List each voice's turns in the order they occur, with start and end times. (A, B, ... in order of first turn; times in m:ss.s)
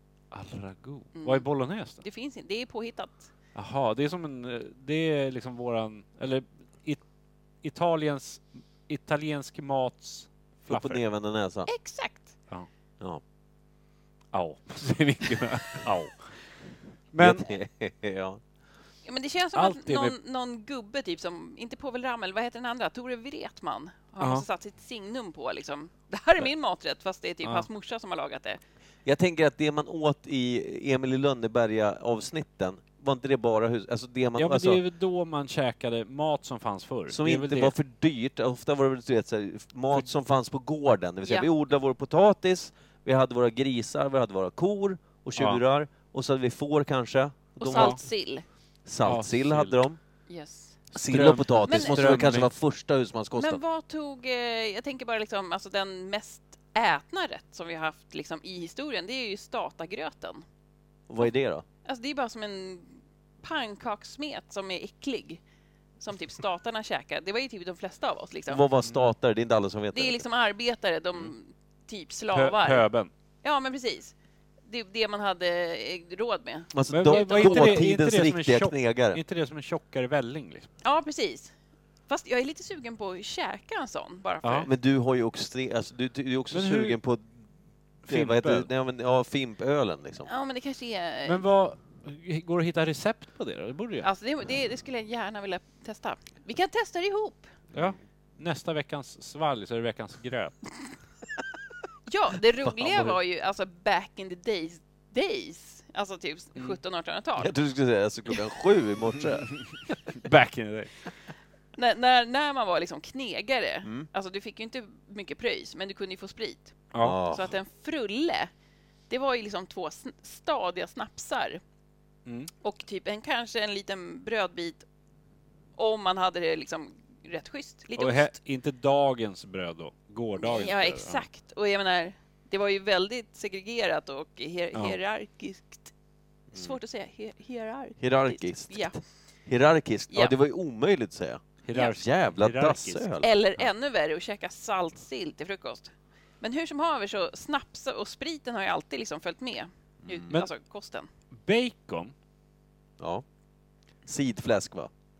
0:00.3-0:02.0 A
0:01.2-0:01.5 B
0:02.0-0:03.3 B
0:03.6-0:07.0 A
0:07.6-0:11.0 A
0:10.7-0:11.7 C
0:11.7-0:12.4 B
0:14.3-0:16.3 A
0:17.1-0:17.5 A
0:17.2-0:18.4 C
0:19.0-0:28.6 B
0:19.6-0:20.2 A
0:24.2-0:24.5 A
0:29.1-0:34.8 C
0:34.4-0:37.7 A
0:37.1-0:48.0 C
0:45.4-0:45.6 A
0:47.6-0:48.4 B
0:47.7-0:48.0 A
0:48.9-0:50.0 C
0:49.0-0:49.8 A
0:50.3-0:50.8 B
0:50.9-0:53.6 C
0:51.0-0:52.5 A
0:51.7-0:52.3 B
0:53.4-1:00.4 B
1:01.1-1:01.6 C
1:01.8-1:05.4 B
1:06.0-1:08.6 B
1:08.5-1:10.2 C
1:09.9-1:12.9 B
1:12.3-1:13.1 A
1:13.4-1:14.1 B
1:14.7-1:17.8 B
1:16.7-1:19.2 C
1:16.9-1:20.7 A
1:20.8-1:21.5 B
1:22.1-1:24.7 B
1:24.4-1:24.7 A
1:24.7-1:27.3 C
1:26.5-1:27.0 A
1:28.0-1:28.7 A
1:28.1-1:30.3 C
1:30.3-1:31.4 B
1:31.2-1:34.1 A
1:34.0-1:37.5 B
1:37.7-1:40.6 A
1:42.1-1:47.5 B
1:42.7-1:43.1 C
1:47.4-1:49.6 C
1:50.1-1:50.9 A
1:51.8-1:58.5 B
1:53.8-1:54.1 C
1:56.9-1:57.2 A
1:57.0-1:57.5 C
1:59.1-2:01.6 B
2:02.3-2:02.5 A
2:02.6-2:04.8 B
2:05.8-2:08.3 B
2:08.0-2:11.2 A
2:10.4-2:15.9 B
2:16.5-2:19.0 B
2:18.0-2:23.3 C
2:21.6-2:23.1 A
2:23.2-2:31.1 B
2:30.0-2:30.4 C
2:31.3-2:32.1 A
2:33.0-2:33.2 C
2:34.1-2:34.9 C